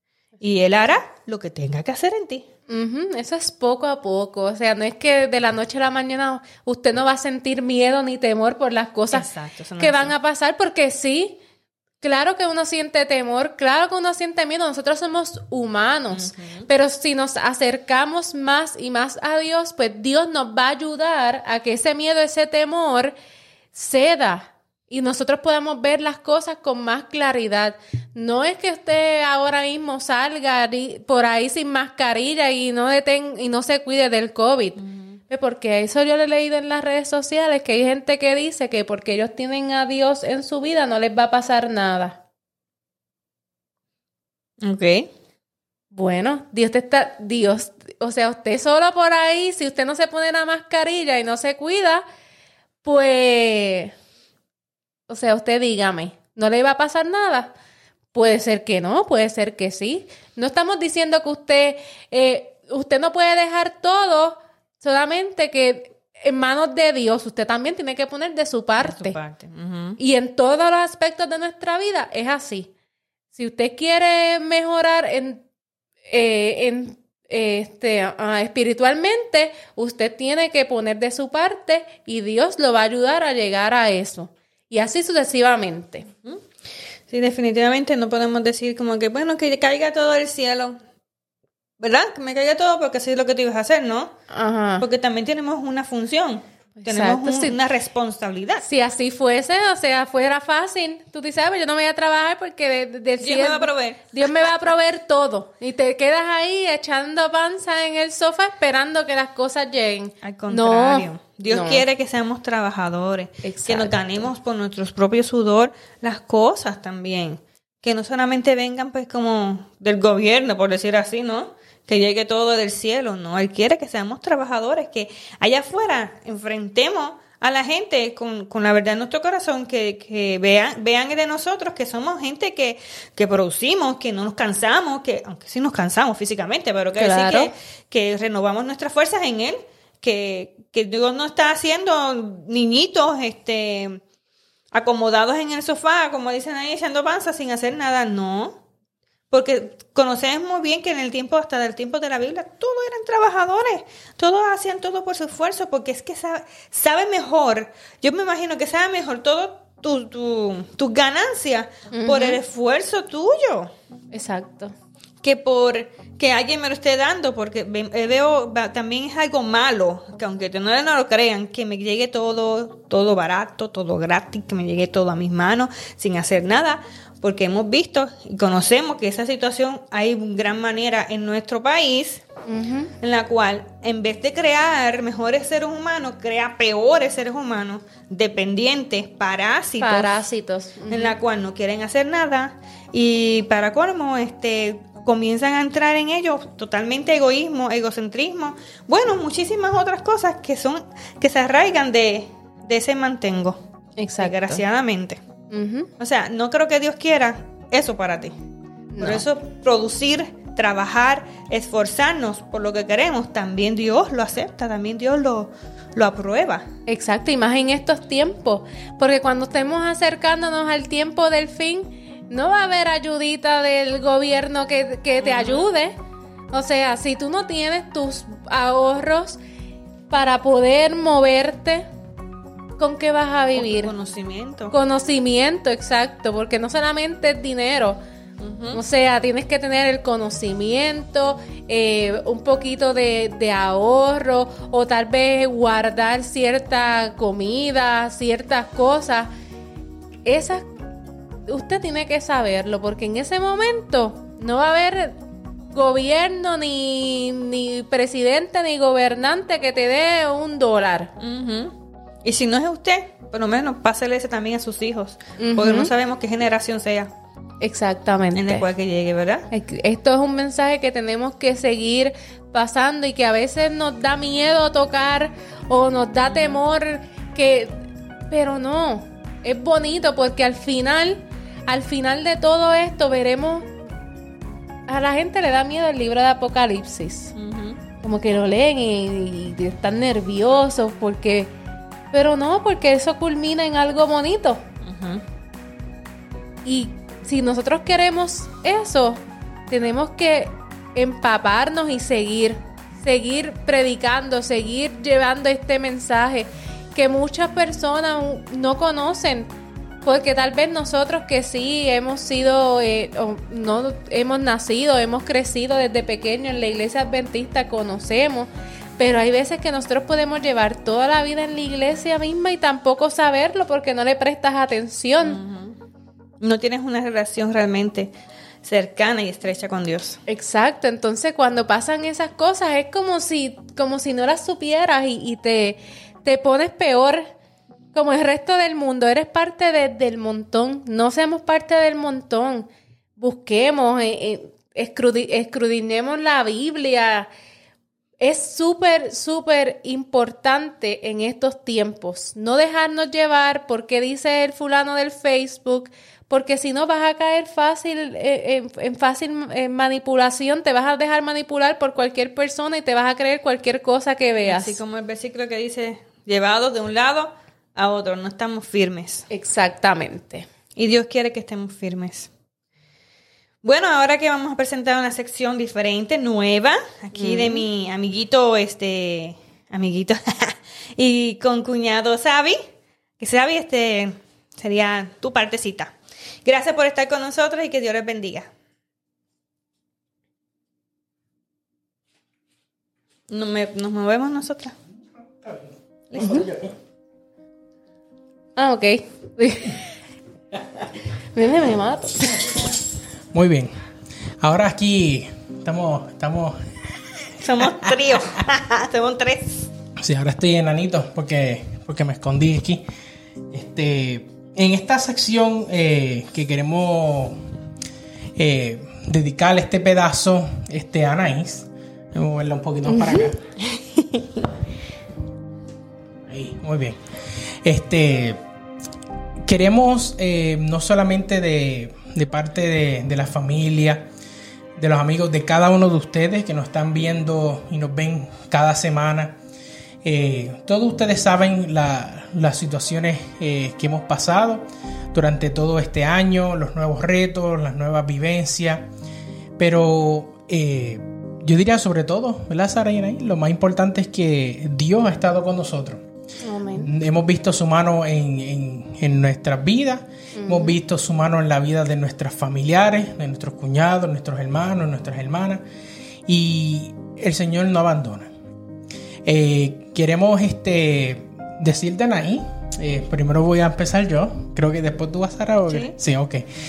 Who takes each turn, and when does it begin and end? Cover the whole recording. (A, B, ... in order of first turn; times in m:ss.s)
0:00.4-0:02.5 A
0:02.7-0:09.3 B
0:09.1-0:10.1 A
0:09.8-0:11.4 B
0:12.0-0:23.2 B
0:16.1-0:16.7 A
0:23.7-0:42.2 B
0:34.8-0:35.2 A
0:44.6-0:45.1 A
0:45.9-0:52.0 B
0:52.8-0:53.9 B
0:55.1-0:57.5 B
0:58.1-1:09.2 B
1:08.8-1:10.0 A
1:10.0-1:12.7 B
1:13.3-1:15.4 B
1:16.1-1:26.1 B
1:27.1-1:30.8 A
1:31.8-1:34.1 A
1:34.3-1:34.8 B
1:34.8-1:38.6 A
1:36.8-1:37.6 B
1:38.6-1:51.8 B
1:43.2-1:44.3 A
1:50.2-2:24.0 A
1:53.4-1:54.3 B
2:17.0-2:17.5 B
2:24.7-2:28.6 A
2:29.3-2:43.7 A
2:41.9-2:42.4 B
2:44.1-2:44.7 B
2:45.2-3:02.2 A
3:02.4-3:02.9 B
3:03.0-3:10.2 A
3:09.8-3:11.2 B
3:10.9-3:23.6 A
3:24.0-3:24.6 B
3:24.2-3:25.2 A
3:25.5-3:25.9 B
3:26.0-3:28.4 A
3:28.9-3:29.2 B
3:29.0-3:36.7 A
3:36.9-3:46.0 B
3:45.2-3:45.7 A
3:46.5-3:49.4 B
3:50.1-3:51.9 B
3:52.8-3:53.9 B
3:53.5-3:54.7 A
3:54.7-3:58.0 B
3:58.4-3:58.8 A
3:58.7-4:09.3 B
4:10.2-4:10.7 B
4:11.5-4:15.2 B
4:15.7-4:21.1 B
4:21.2-4:27.1 A
4:25.4-4:25.9 B
4:27.6-4:28.6 B
4:28.3-4:29.5 A
4:29.5-4:43.7 B
4:36.2-4:36.6 A
4:44.9-4:47.3 B
4:47.3-4:47.8 A
4:48.0-4:51.5 B
4:52.1-4:54.6 B
4:54.8-4:55.2 A
4:56.6-5:09.5 B
5:10.0-5:25.4 B
5:25.2-5:25.8 A
5:26.4-5:30.2 A
5:30.3-5:37.3 B
5:37.9-5:47.3 B
5:48.2-6:04.8 B
6:04.4-6:09.3 A
6:09.3-6:10.4 B
6:10.8-6:12.3 A
6:13.6-6:22.6 A
6:17.1-6:17.6 B
6:23.2-6:28.5 A
6:33.3-6:34.8 A
6:35.4-6:36.7 C
6:36.1-6:36.5 A
6:38.6-6:39.8 B
6:41.3-6:42.3 B
6:43.3-6:43.7 C
6:44.4-6:46.6 C
6:47.4-6:49.7 A
6:50.0-6:52.8 C
6:53.5-6:57.4 C
6:58.4-7:03.4 C
7:02.9-7:03.3 B
7:03.8-7:04.4 A
7:06.3-7:07.0 C
7:07.6-7:08.4 C
7:09.4-7:14.1 C
7:14.8-7:19.4 C
7:20.0-7:28.9 C
7:29.6-7:36.0 C
7:36.4-7:36.9 B
7:36.8-7:45.6 C
7:40.3-7:40.8 B
7:46.3-7:48.3 C
7:49.2-7:56.5 C
7:55.7-7:55.9 A